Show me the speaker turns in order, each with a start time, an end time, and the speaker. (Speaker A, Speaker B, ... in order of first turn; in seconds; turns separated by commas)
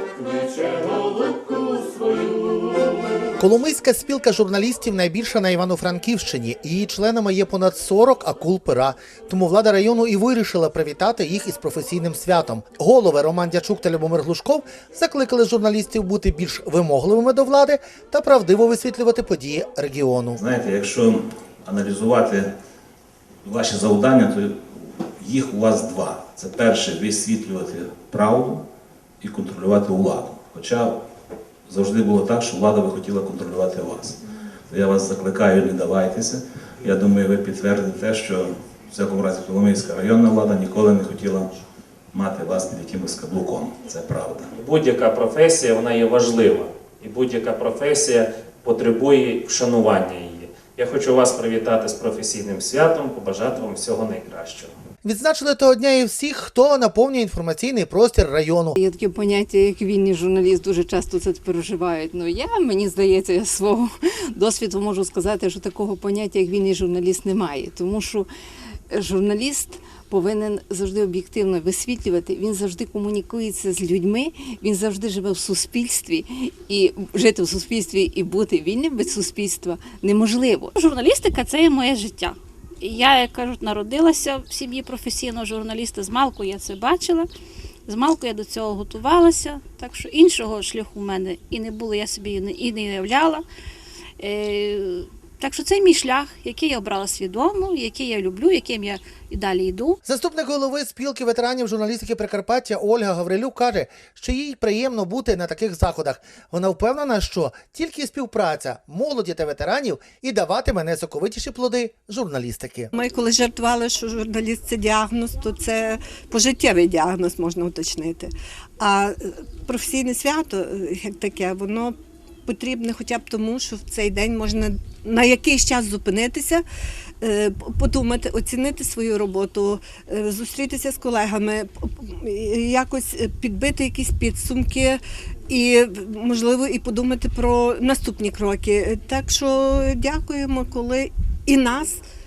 Speaker A: 0.2-2.9, Speaker B: 3.4-20.4, Speaker C: 20.4-22.5, Speaker C: 23.4-28.6, Speaker C: 29.2-30.9, Speaker C: 31.7-41.5, Speaker C: 42.1-44.5, Speaker A: 44.5-54.7, Speaker B: 55.0-58.8, Speaker D: 58.7-68.3, Speaker D: 68.9-80.7, Speaker E: 80.7-87.3, Speaker E: 87.9-93.4, Speaker E: 94.2-100.0, Speaker B: 100.0-112.9, Speaker F: 113.0-122.0, Speaker F: 122.5-126.6, Speaker F: 127.2-142.0